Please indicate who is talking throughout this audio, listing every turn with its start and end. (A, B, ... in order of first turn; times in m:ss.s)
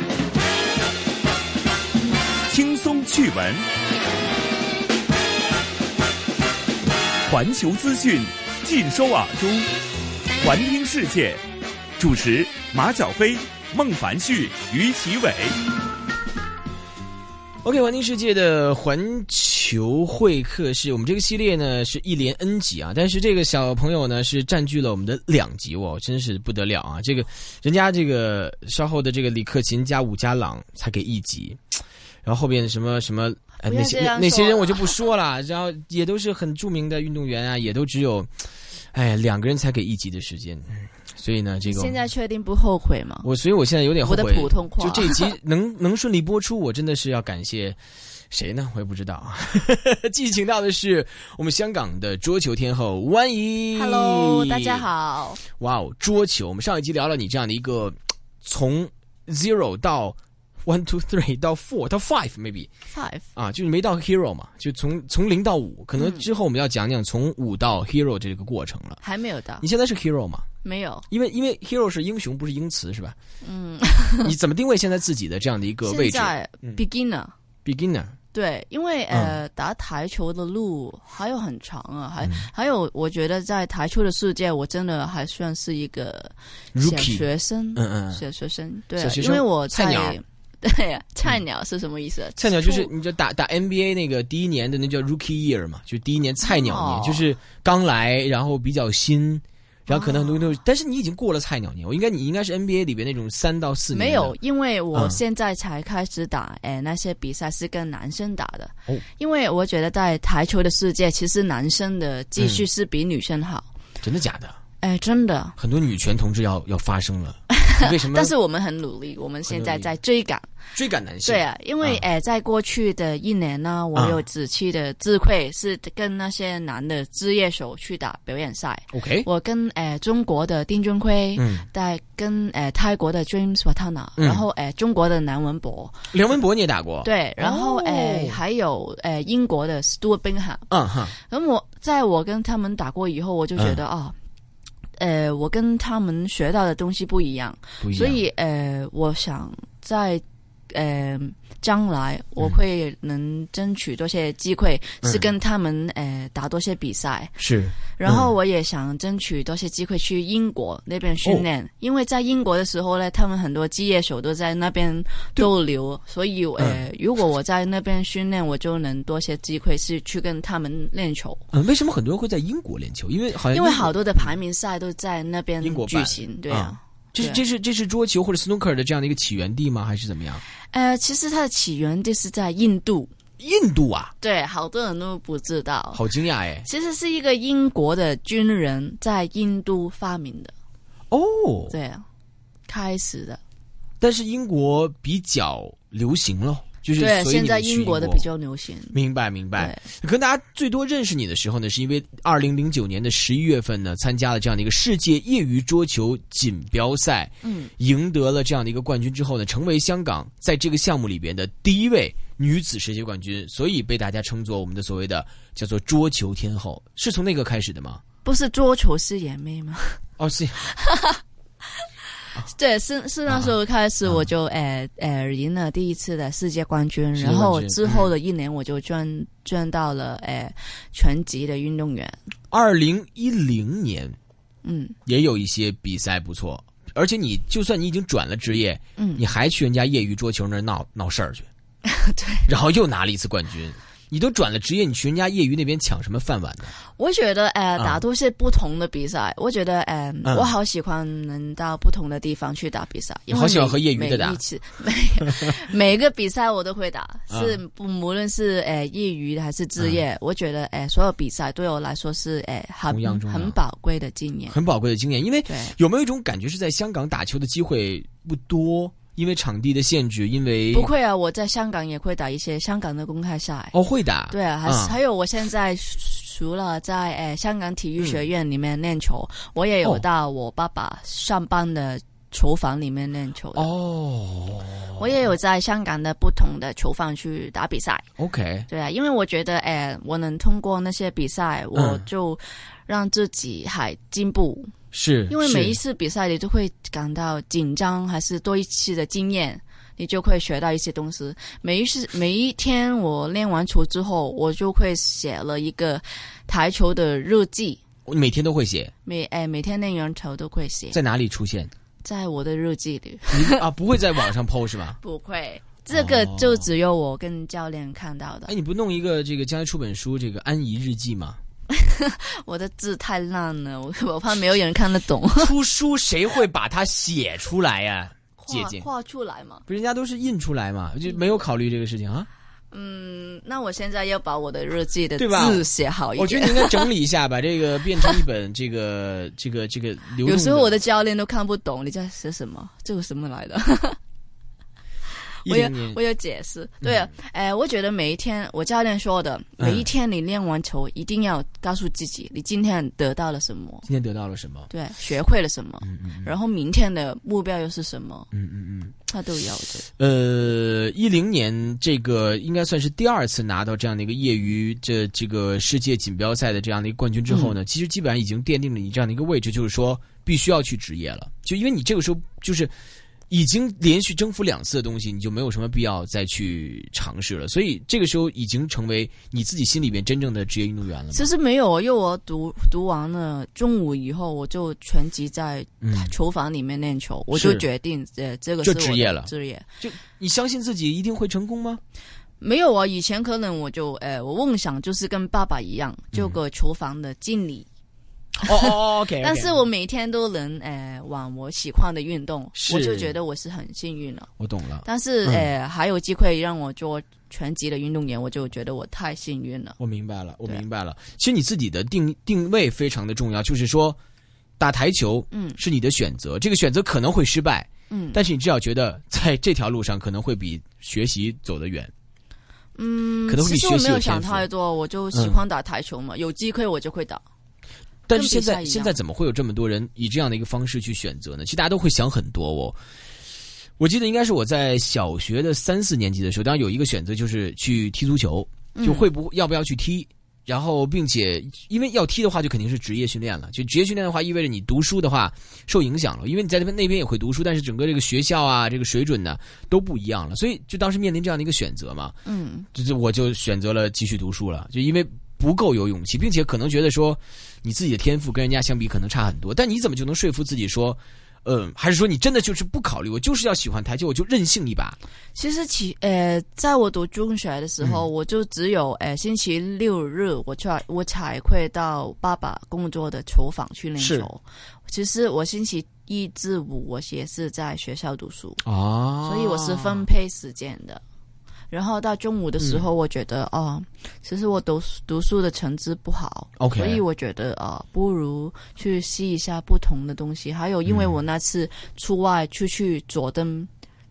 0:02.5-0:03.6 A
0:07.3-0:09.7 A
0:10.4-0:11.4 A
0:12.0-0:15.6 A
0:17.6-0:31.6 B
0:32.2-0:38.3 B
0:33.6-0:35.0 C
0:38.9-0:42.0 B
0:41.6-0:43.3 C
0:43.2-0:47.8 B
0:44.0-0:45.3 C
0:48.3-0:54.9 B
0:53.7-0:55.4 C
0:55.4-1:02.7 B
1:02.9-1:03.3 C
1:03.3-1:09.0 B
1:06.0-1:06.2 C
1:09.0-1:09.6 C
1:09.6-1:10.4 B
1:10.6-1:11.0 C
1:11.1-1:13.2 B
1:13.4-1:14.3 C
1:14.2-1:16.8 B
1:15.8-1:17.3 C
1:17.6-1:18.2 B
1:18.3-1:32.9 C
1:19.1-1:19.4 B
1:22.2-1:22.5 B
1:26.7-1:28.2 B
1:29.0-1:30.2 B
1:32.4-1:44.3 B
1:36.4-1:37.3 C
1:39.9-1:40.4 C
1:43.9-1:53.7 C
1:44.9-1:45.2 B
1:52.4-1:52.6 B
1:54.0-1:54.6 B
1:54.8-1:55.5 C
1:55.6-1:58.3 B
1:57.5-2:00.5 C
1:59.5-1:59.9 B
2:00.7-2:02.0 B
2:01.2-2:16.0 C
2:08.9-2:09.3 B
2:11.4-2:11.6 B
2:14.2-2:14.4 B
2:16.1-2:18.4 B
2:17.0-2:24.1 C
2:20.7-2:21.1 B
2:25.0-2:37.4 C
2:27.8-2:28.2 B
2:37.4-2:38.3 B
2:37.9-2:51.4 C
2:46.6-2:46.8 B
2:51.5-2:54.3 B
2:53.5-2:57.4 C
2:55.6-3:00.4 B
3:00.7-3:03.1 C
3:03.4-3:04.1 B
3:04.2-3:06.0 C
3:05.9-3:06.6 B
3:06.6-3:10.5 C
3:11.1-3:11.7 B
3:11.7-3:12.0 C
3:12.7-3:13.4 C
3:14.0-3:18.2 B
3:17.0-3:19.0 C
3:18.9-3:38.0 B
3:19.6-3:19.8 C
3:27.4-3:27.7 C
3:38.2-3:40.0 C
3:40.2-3:40.7 B
3:40.7-3:41.2 C
3:42.4-3:52.2 C
3:43.3-3:43.5 B
3:47.2-3:48.1 B
3:52.5-3:54.2 B
3:54.6-3:54.9 C
3:55.0-4:01.5 B
3:59.0-3:59.2 C
4:01.8-4:02.5 C
4:02.5-4:06.7 B
4:06.9-4:24.6 C
4:10.2-4:10.5 B
4:13.3-4:14.4 B
4:17.3-4:17.6 B
4:22.9-4:23.6 B
4:24.5-4:30.9 B
4:25.5-4:25.8 C
4:30.7-4:33.7 C
4:33.7-4:35.0 B
4:34.3-4:43.7 C
4:43.6-4:45.1 B
4:45.0-4:48.0 C
4:48.2-4:48.7 B
4:48.7-4:54.7 C
4:51.7-4:52.0 B
4:54.9-4:55.8 B
4:55.3-5:07.8 C
5:08.0-5:08.9 B
5:09.0-5:11.0 C
5:10.9-5:11.7 B
5:12.0-5:13.6 C
5:13.3-5:15.0 B
5:15.0-5:18.5 C
5:15.9-5:16.7 B
5:18.5-5:21.4 B
5:21.7-5:25.5 C
5:25.4-5:28.8 B
5:28.4-5:29.6 C
5:29.7-5:32.3 B
5:32.7-5:36.9 C
5:35.2-5:40.7 B
5:40.2-5:44.0 C
5:45.4-5:53.8 C
5:45.4-5:46.0 B
5:46.8-5:47.1 B
5:49.6-5:49.9 B
5:53.8-5:54.7 B
5:54.7-5:58.3 C
5:55.8-5:56.3 B
5:58.3-5:58.9 B
5:59.1-5:59.9 C
6:00.0-6:12.7 B
6:07.3-6:07.5 C
6:13.3-6:21.3 B
6:21.1-6:29.7 C
6:25.8-6:26.1 B
6:27.3-6:27.6 B
6:28.6-6:31.8 B
6:32.4-6:37.7 C
6:36.1-6:36.4 B
6:38.4-6:39.6 B
6:38.4-6:44.3 C
6:42.6-6:43.1 B
6:44.4-6:45.5 B
6:44.8-6:49.8 C
6:49.8-6:54.0 B
6:54.6-7:01.9 B
6:55.3-6:55.6 C
6:57.9-6:58.2 C
7:02.8-7:07.2 C
7:03.3-7:04.5 B
7:05.1-7:05.4 B
7:08.1-7:12.8 B
7:08.1-7:09.0 C
7:13.8-7:32.2 B
7:18.7-7:19.1 C
7:32.2-7:32.7 C
7:32.7-7:45.0 B
7:45.4-7:58.6 C
7:54.0-7:54.3 B
7:58.6-8:00.0 B
7:59.2-8:01.0 C
8:01.7-8:13.7 C
8:02.6-8:02.8 B
8:06.6-8:07.0 B
8:10.8-8:11.2 B